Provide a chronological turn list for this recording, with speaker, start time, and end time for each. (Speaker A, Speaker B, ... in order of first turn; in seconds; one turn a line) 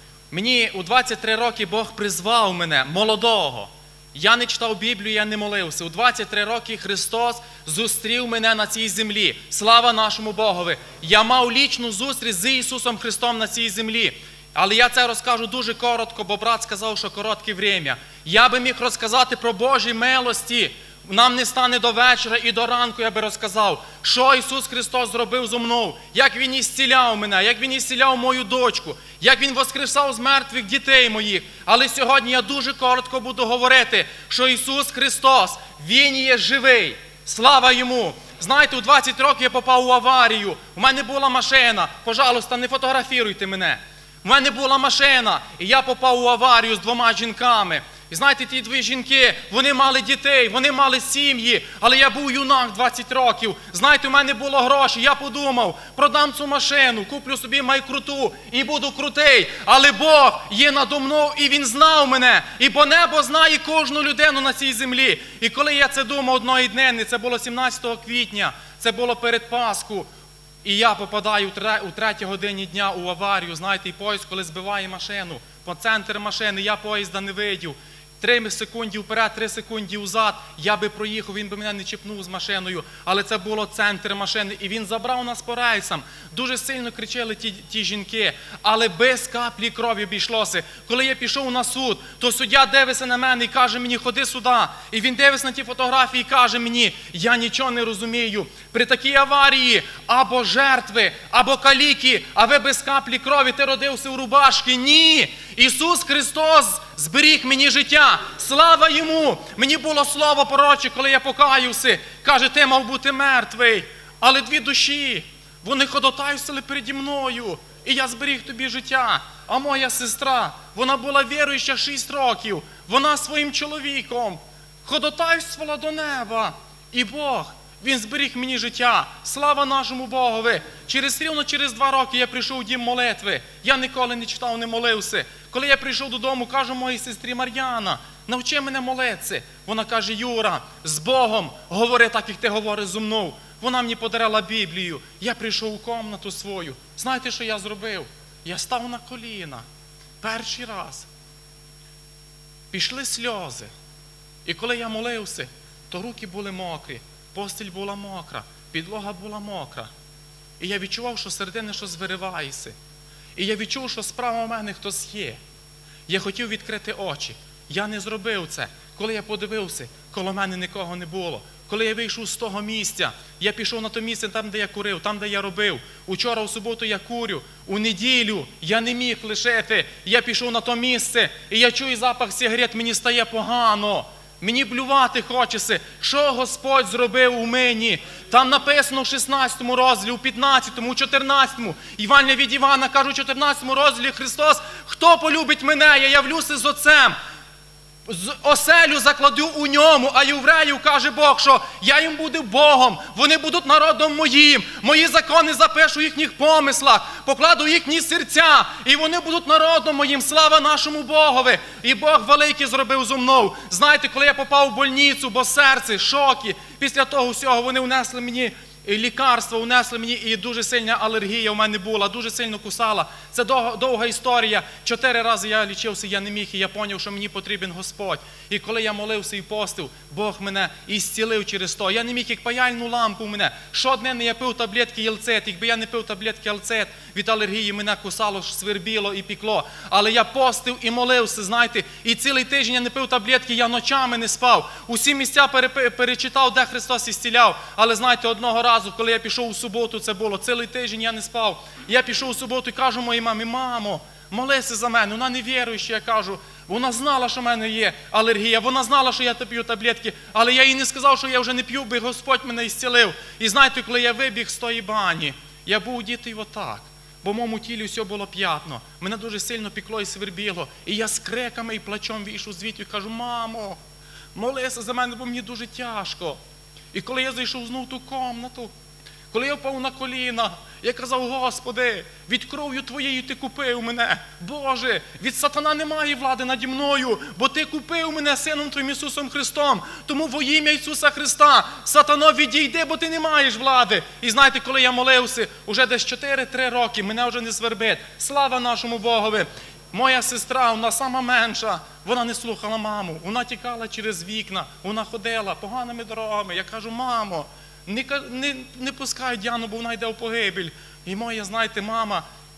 Speaker A: 0.3-70.1
Speaker A: 70.6-149.6
Speaker A: 150.2-151.1
Speaker A: 152.7-153.7
Speaker A: 154.4-159.9
Speaker A: 160.6-162.7
Speaker A: 163.3-165.4
Speaker A: 166.1-197.1
Speaker A: 198.1-273.8
Speaker A: 274.3-276.4
Speaker A: 276.9-278.7
Speaker A: 279.3-312.2